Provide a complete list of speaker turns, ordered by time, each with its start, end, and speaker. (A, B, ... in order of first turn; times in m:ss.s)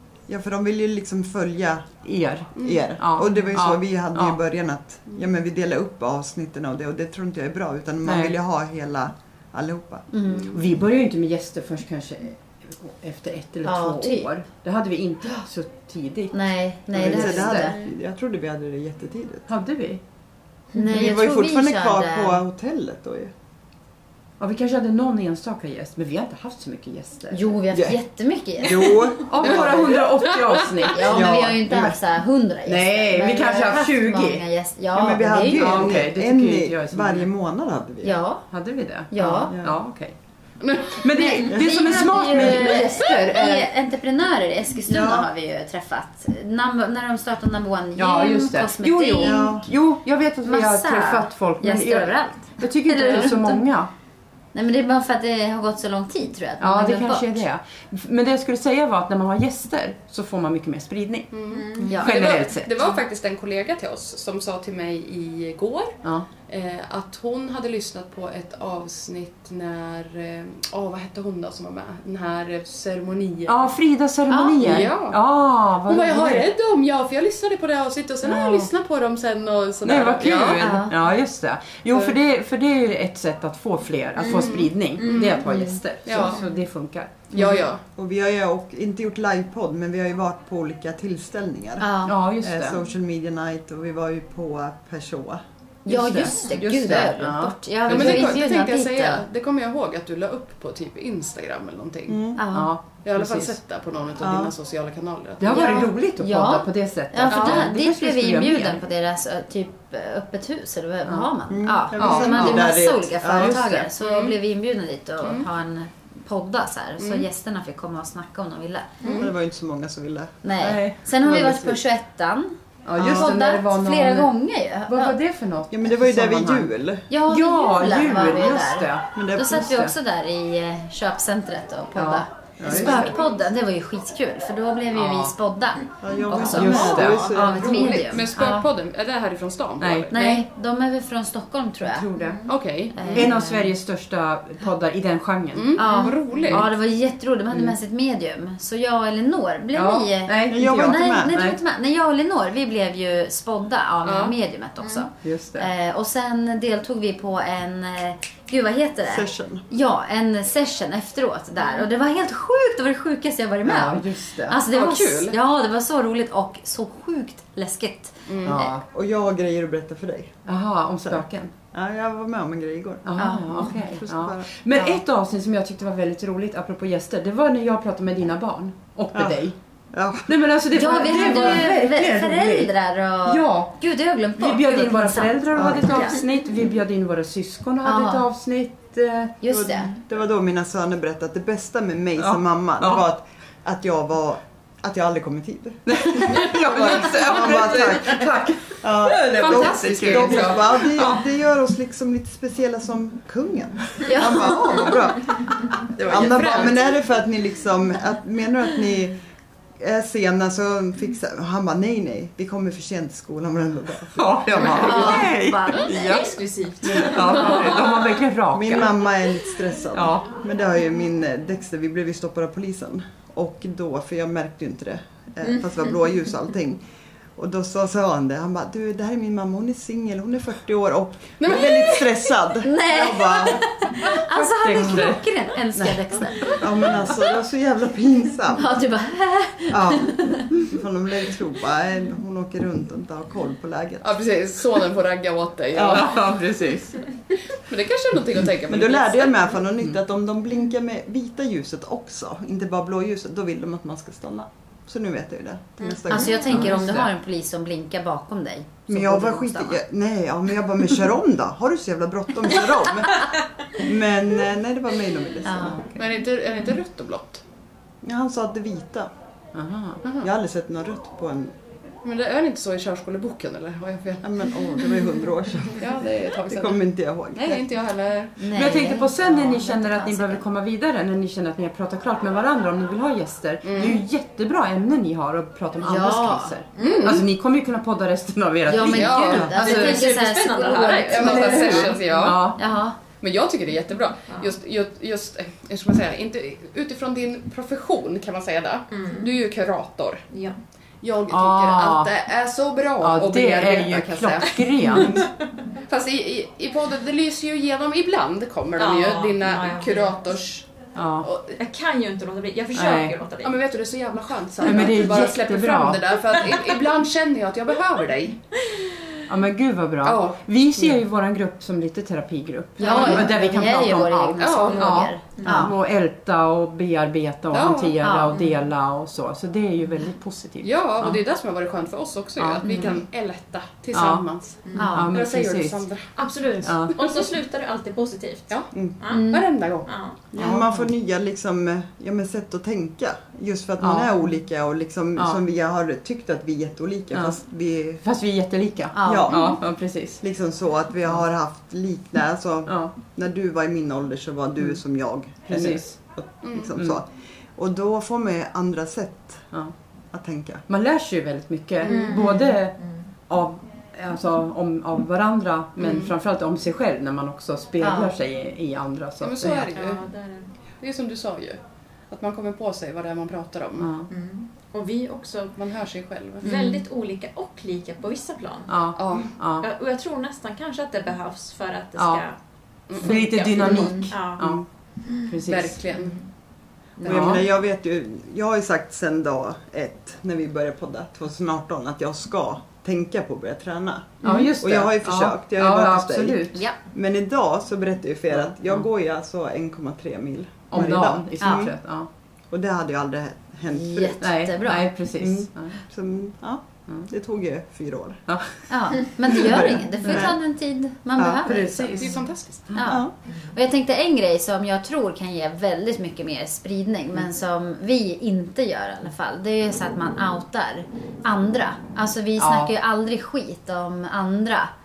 0:00.3-0:01.9 A
0:02.0-0:04.4 B
0:02.6-0:02.9 C
0:02.6-0:10.1 A
0:08.0-0:08.4 B
0:10.1-0:10.6 D
0:10.5-0:16.3 B
0:13.6-0:14.3 D
0:16.3-0:17.8 D
0:16.9-0:17.8 B
0:16.9-0:19.5 A
0:19.5-0:20.0 B
0:20.7-0:22.4 D
0:20.9-0:23.3 A
0:24.4-0:27.4 B
0:27.3-0:29.1 D
0:27.7-0:28.0 A
0:28.6-0:29.9 A
0:29.3-0:31.4 B
0:29.4-0:30.7 C
0:30.8-0:36.0 D
0:31.0-0:32.0 A
0:32.7-0:34.4 B
0:34.9-0:38.2 A
0:35.5-0:37.3 B
0:38.0-0:38.5 D
0:38.5-0:40.2 B
0:39.1-0:39.5 D
0:39.2-0:39.8 A
0:40.6-0:40.9 C
0:40.8-0:43.7 B
0:41.1-0:49.4 D
0:44.9-0:45.3 A
0:48.0-0:53.9 B
0:49.2-0:49.6 A
0:50.4-0:53.6 D
0:54.5-0:57.4 D
0:56.6-1:01.3 B
1:01.3-1:13.7 C
1:01.5-1:02.0 E
1:01.9-1:02.7 B
1:13.4-1:16.4 B
1:14.3-1:14.7 D
1:14.6-1:15.2 C
1:15.8-1:20.8 C
1:18.2-1:18.7 B
1:19.8-1:27.6 B
1:20.6-1:21.0 D
1:24.2-1:25.4 C
1:25.0-1:25.3 E
1:25.4-1:25.8 D
1:26.0-1:26.4 C
1:27.3-1:27.8 C
1:28.0-1:35.4 A
1:31.8-1:32.2 D
1:32.0-1:32.8 B
1:35.8-1:39.2 D
1:35.9-1:38.4 B
1:36.3-1:36.6 E
1:37.9-1:42.2 C
1:42.1-1:42.4 A
1:42.4-1:42.7 D
1:42.5-1:43.5 B
1:43.0-1:45.9 C
1:44.2-1:44.5 A
1:45.4-1:48.8 B
1:45.5-1:59.3 D
1:47.3-1:47.7 C
1:51.5-1:53.9 A
1:52.0-1:52.8 B
1:53.3-1:53.9 B
1:54.0-1:54.4 C
1:55.2-1:55.5 C
1:57.0-1:57.3 C
1:59.0-1:59.3 E
1:59.1-2:00.3 A
2:00.4-2:05.2 D
2:00.6-2:01.0 B
2:01.2-2:01.8 A
2:02.8-2:06.7 B
2:03.0-2:03.4 A
2:05.7-2:07.0 A
2:07.1-2:18.7 D
2:07.3-2:09.9 B
2:09.1-2:09.6 A
2:11.9-2:13.2 B
2:12.6-2:13.1 A
2:14.9-2:15.3 B
2:16.0-2:18.2 A
2:16.3-2:18.0 E
2:16.4-2:17.3 B
2:17.7-2:20.2 C
2:19.8-2:20.4 B
2:20.1-2:22.1 D
2:21.8-2:22.4 B
2:22.1-2:22.5 E
2:22.4-2:23.3 C
2:22.9-2:23.7 D
2:23.1-2:25.8 B
2:25.5-2:26.7 C
2:25.8-2:48.8 D
2:25.9-2:26.5 E
2:29.7-2:31.6 B
2:30.5-2:31.3 A
2:34.0-2:34.4 C
2:34.8-2:35.1 E
2:35.2-2:35.7 B
2:39.0-2:39.6 A
2:43.6-2:44.6 B
2:44.7-2:45.4 C
2:48.3-2:48.6 C
2:48.4-2:48.8 B
2:48.9-2:50.3 A
2:50.4-2:51.5 B
2:51.7-2:54.6 A
2:53.0-2:59.6 B
2:53.2-2:53.8 D
2:59.1-2:59.4 A
2:59.9-3:00.3 A
3:00.3-3:02.7 B
3:00.7-3:06.2 D
3:01.2-3:01.6 A
3:03.2-3:03.8 B
3:04.4-3:09.4 B
3:05.6-3:05.8 A
3:07.8-3:08.3 D
3:09.4-3:09.9 D
3:09.5-3:29.2 A
3:12.2-3:13.0 B
3:15.9-3:21.2 B
3:16.4-3:17.2 C
3:19.3-3:20.9 C
3:24.0-3:24.9 D
3:26.0-3:26.9 C
3:26.1-3:26.7 E
3:29.8-3:35.2 A
3:34.1-3:36.3 B
3:34.6-3:36.1 D
3:35.8-3:38.1 E
3:36.8-3:39.0 B
3:37.0-3:37.7 A
3:38.5-3:46.8 A
3:39.9-3:40.3 B
3:45.4-3:45.8 E
3:47.4-3:53.7 A
3:51.4-3:52.1 C
3:52.6-3:57.2 D
3:54.2-3:55.2 B
3:55.8-3:58.7 A
3:58.5-4:00.5 D
3:59.7-4:04.2 A
4:04.0-4:06.3 C
4:05.8-4:06.1 A
4:05.8-4:07.0 B
4:07.5-4:09.5 C
4:08.7-4:16.7 A
4:16.1-4:16.6 E
4:16.1-4:19.8 D
4:16.5-4:17.1 B
4:18.9-4:25.9 A
4:25.4-4:25.8 D
4:25.9-4:27.4 C
4:28.0-4:29.1 A
4:29.6-4:30.0 B
4:30.0-4:30.3 C
4:30.2-4:31.5 A
4:32.0-4:34.2 C
4:34.2-4:37.6 A
4:35.7-4:36.8 C
4:37.3-4:38.5 C
4:38.4-4:40.4 D
4:38.5-4:50.0 B
4:43.6-4:44.0 C
4:45.8-4:46.6 D
4:46.8-4:47.3 C
4:46.8-4:47.2 E
4:48.7-4:53.0 D
4:48.9-4:49.9 C
4:49.4-4:52.0 E
4:51.1-4:52.6 C
4:52.2-4:52.6 B
4:53.2-5:00.2 C
4:54.3-4:54.6 E
4:58.9-4:59.3 E
5:00.3-5:00.6 E
5:01.0-5:05.3 C
5:01.3-5:02.1 B
5:03.0-5:05.2 B
5:05.9-5:10.7 C
5:08.8-5:10.4 E
5:11.0-5:11.3 B
5:11.2-5:11.6 C
5:11.6-5:13.6 E
5:12.7-5:13.2 B
5:13.4-5:18.4 C
5:14.6-5:16.1 B
5:19.3-5:31.2 B
5:20.0-5:20.4 C
5:22.8-5:25.7 D
5:22.8-5:23.6 C
5:24.4-5:25.1 C
5:25.4-5:25.7 E
5:27.5-5:28.0 C
5:28.0-5:28.4 D
5:28.3-5:28.6 E
5:30.6-5:37.2 C
5:32.4-5:32.6 B
5:32.6-5:33.0 D
5:33.9-5:34.2 B
5:34.6-5:35.0 E
5:34.8-5:35.2 D
5:34.9-5:35.8 B
5:36.2-5:39.3 E
5:36.6-5:37.0 B
5:39.1-5:39.4 D
5:39.2-5:39.9 C
5:39.9-5:40.2 E
5:40.3-5:48.0 A
5:40.4-5:40.9 B
5:43.8-5:44.1 B
5:45.2-5:45.4 B
5:48.0-5:50.2 B
5:48.9-5:49.5 D
5:49.0-5:49.6 A
5:50.2-5:59.4 A
5:52.7-5:52.9 B
5:55.5-5:56.0 B
5:56.4-5:56.7 C
6:00.1-6:00.6 A
6:00.7-6:02.8 B
6:01.9-6:03.0 E
6:03.3-6:09.7 B
6:05.8-6:06.1 C
6:07.8-6:08.1 D
6:09.2-6:10.0 C
6:09.7-6:10.5 E
6:10.8-6:11.6 C
6:12.1-6:13.9 C
6:13.8-6:14.1 B
6:14.1-6:15.6 E
6:15.6-6:16.5 C
6:16.4-6:18.8 E
6:18.7-6:19.7 B
6:19.0-6:19.3 C
6:19.6-6:22.4 E
6:22.0-6:22.2 B
6:22.9-6:23.8 C
6:23.0-6:25.4 E
6:23.0-6:24.6 B
6:23.7-6:24.1 D
6:25.3-6:25.8 B
6:25.4-6:26.2 C
6:25.9-6:26.2 E
6:27.0-6:27.4 C
6:27.0-6:41.7 A
6:27.0-6:27.5 B
6:34.2-6:36.6 B
6:34.2-6:34.5 D
6:38.3-6:38.9 B
6:40.7-6:42.1 B
6:41.4-6:41.7 D
6:42.5-6:44.2 A
6:43.7-6:44.9 D
6:44.2-6:45.8 B
6:45.2-6:48.2 A
6:48.7-6:52.2 D
6:49.3-6:50.3 A
6:50.0-6:50.3 B
6:51.2-6:51.4 A
6:51.4-6:51.9 B
6:51.7-6:52.8 C
6:52.7-6:53.0 B
6:52.7-7:04.7 D
6:52.8-6:53.1 A
7:02.4-7:02.7 B